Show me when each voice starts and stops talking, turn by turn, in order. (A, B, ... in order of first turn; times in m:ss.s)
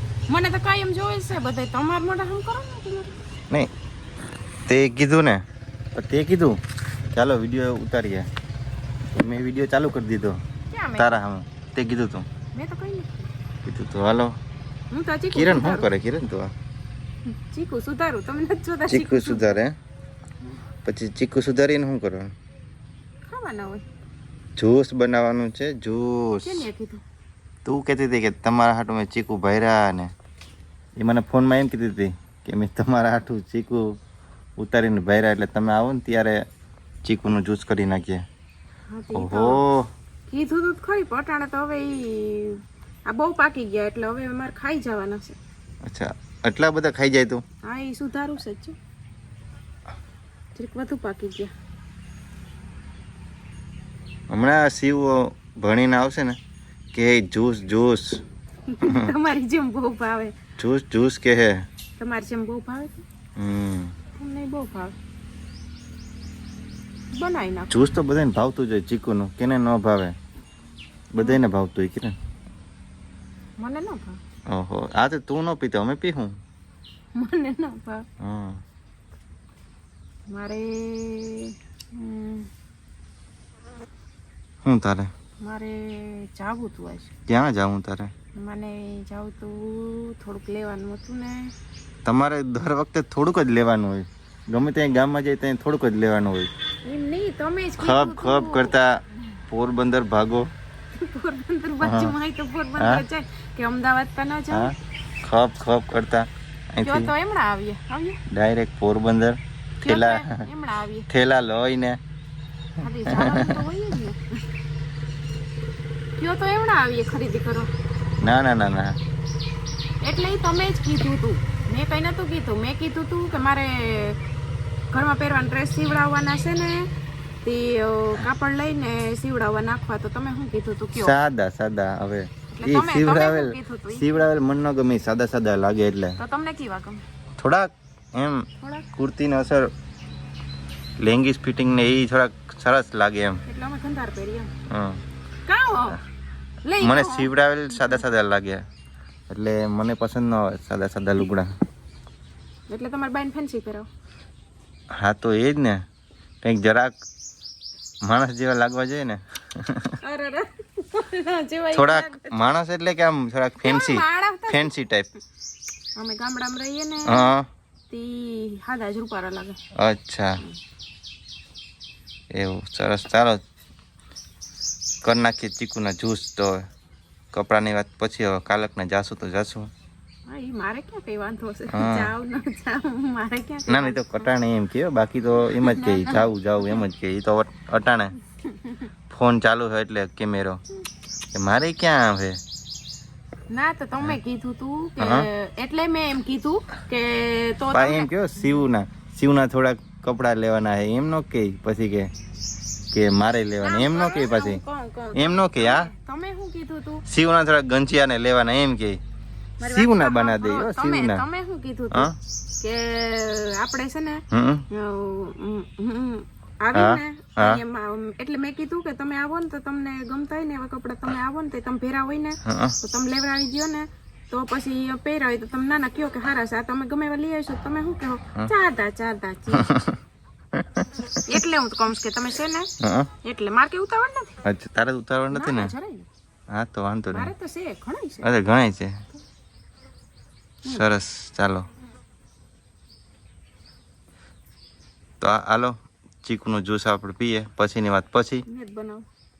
0:00.3-0:03.1 A
0:04.7-0:05.4 B
0:05.9-0:06.6 B
0:07.1-0:08.3 B
0:09.1-0:10.4 B
0:10.7-0:11.1 A
0:11.0-0:12.3 B
0:12.5-0:13.3 A
0:13.6-0:14.4 B
0:14.9-0:15.9 A
0:15.3-0:16.5 B
0:17.3-0:19.6 A
0:18.9-0:19.8 B
0:20.8-0:22.3 B
0:23.3-0:23.8 A
0:24.6-0:26.7 B
0:26.4-0:27.0 A
0:27.6-0:30.1 B
0:31.0-0:34.0 B
0:34.6-0:36.4 B
0:37.0-0:38.2 B
0:38.9-0:39.6 A
0:39.1-0:39.9 B
0:40.3-0:45.4 A
0:45.8-0:47.4 B
0:47.6-0:48.8 A
0:50.5-0:51.5 A
0:54.3-0:56.4 B
0:56.9-0:58.2 B
0:58.7-1:00.3 A
0:58.8-0:59.1 B
1:00.6-1:01.6 B
1:02.0-1:03.0 A
1:03.4-1:03.9 B
1:04.1-1:04.9 A
1:07.1-1:07.9 A
1:07.7-1:10.1 B
1:11.1-1:12.1 B
1:13.6-1:14.2 A
1:14.5-1:16.4 B
1:17.1-1:18.0 A
1:18.2-1:18.6 B
1:20.3-1:22.5 A
1:24.6-1:25.1 B
1:25.4-1:27.1 A
1:27.3-1:28.1 B
1:28.4-1:31.5 A
1:32.0-1:36.5 B
1:36.8-1:38.7 A
1:37.8-1:40.5 B
1:41.0-1:44.7 A
1:41.8-1:42.1 B
1:42.8-1:43.0 B
1:44.5-1:47.1 B
1:46.8-1:48.2 A
1:48.3-1:50.4 B
1:49.8-1:51.1 A
1:51.1-1:52.0 B
1:52.8-1:54.2 A
1:53.1-1:53.6 B
1:56.2-1:57.7 A
1:58.2-1:59.0 B
2:00.0-2:04.2 A
2:04.9-2:06.9 A
2:07.4-2:11.2 A
2:10.9-2:16.2 B
2:12.5-2:14.2 A
2:16.2-2:17.0 A
2:17.4-2:19.7 B
2:21.0-2:23.4 B
2:23.5-2:24.5 A
2:24.7-2:25.0 B
2:25.5-2:26.0 A
2:26.6-2:28.0 A
2:26.8-2:28.6 B
2:29.3-2:31.5 B
2:32.7-2:33.9 A
2:34.9-2:35.8 B
2:36.4-2:37.0 B
2:38.0-2:40.0 B
2:40.0-2:42.3 A
2:41.7-2:45.1 B
2:43.6-2:44.7 A
2:46.0-2:47.3 A
2:47.0-2:47.5 B
2:47.9-2:49.6 A
2:49.7-2:50.4 B
2:52.3-2:53.4 B
2:55.0-2:56.6 B
2:57.3-2:59.7 B
3:00.3-3:04.3 A
3:01.7-3:02.1 B
3:03.7-3:08.1 B
3:05.6-3:06.8 A
3:08.4-3:08.8 A
3:09.1-3:10.6 B
3:11.3-3:12.4 B
3:13.5-3:18.1 A
3:15.0-3:15.3 B
3:17.7-3:22.1 B
3:22.9-3:24.6 B
3:23.6-3:27.0 A
3:25.1-3:25.9 B
3:27.0-3:29.0 B
3:29.6-3:32.1 A
3:29.6-3:31.3 B
3:31.9-3:32.2 B
3:32.6-3:49.7 A
3:34.3-3:34.6 B
3:36.7-3:37.6 B
3:42.4-3:42.8 B
3:49.5-3:50.0 B
3:50.5-3:51.2 B
3:51.2-3:52.7 A
3:52.8-3:53.1 B
3:53.2-3:54.4 A
3:54.4-3:55.7 B
3:55.3-3:56.1 A
3:56.5-3:57.3 B
3:57.1-3:58.3 A
3:58.2-3:59.0 B
4:00.6-4:01.7 B
4:05.2-4:08.4 B
4:08.5-4:09.0 A